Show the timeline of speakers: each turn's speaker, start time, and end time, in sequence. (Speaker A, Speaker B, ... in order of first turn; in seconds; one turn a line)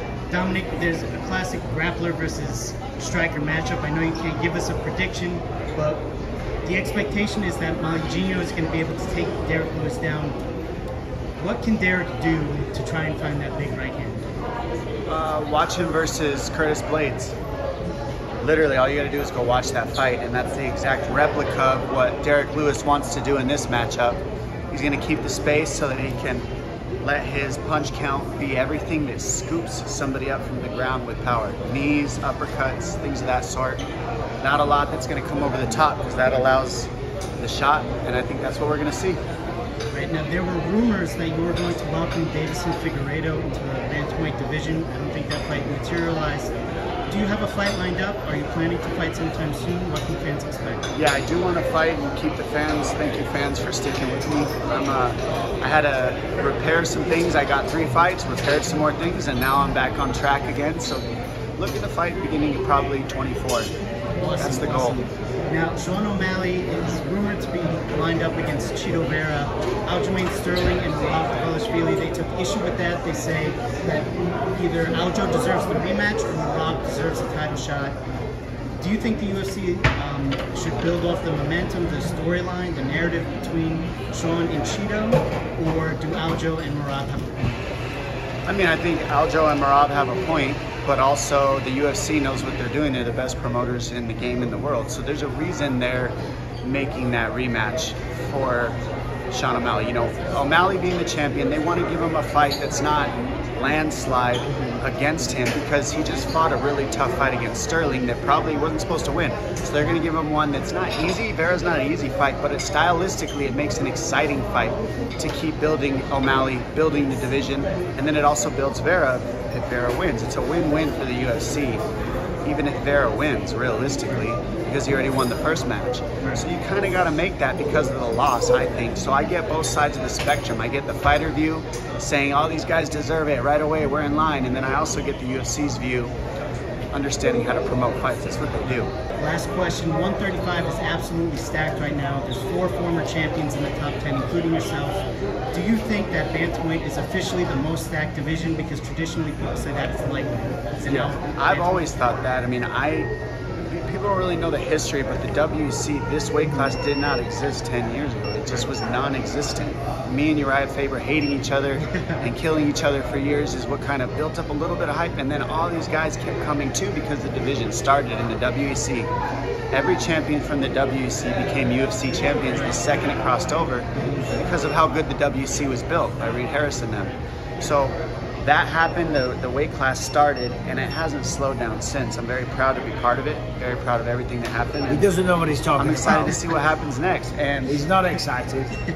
Speaker A: 0.3-6.1
Speaker A: 6.6-10.4
Speaker A: 11.4-14.2
Speaker B: 15.1-17.4
Speaker B: 18.4-26.5
Speaker B: 27.0-33.8
Speaker B: 34.4-39.2
Speaker A: 39.9-46.5
Speaker A: 47.1-50.9
Speaker B: 50.9-63.7
Speaker A: 64.2-78.0
Speaker B: 64.4-65.0
Speaker A: 78.8-87.6
Speaker B: 88.5-98.8
Speaker B: 99.3-121.8
Speaker B: 122.4-136.1
Speaker B: 136.9-138.9
Speaker A: 139.2-151.9
Speaker B: 150.8-153.1
Speaker B: 153.7-169.1
Speaker A: 161.8-162.3
Speaker B: 169.7-185.1
Speaker C: 184.9-186.4
Speaker B: 185.8-187.8
Speaker C: 187.6-188.7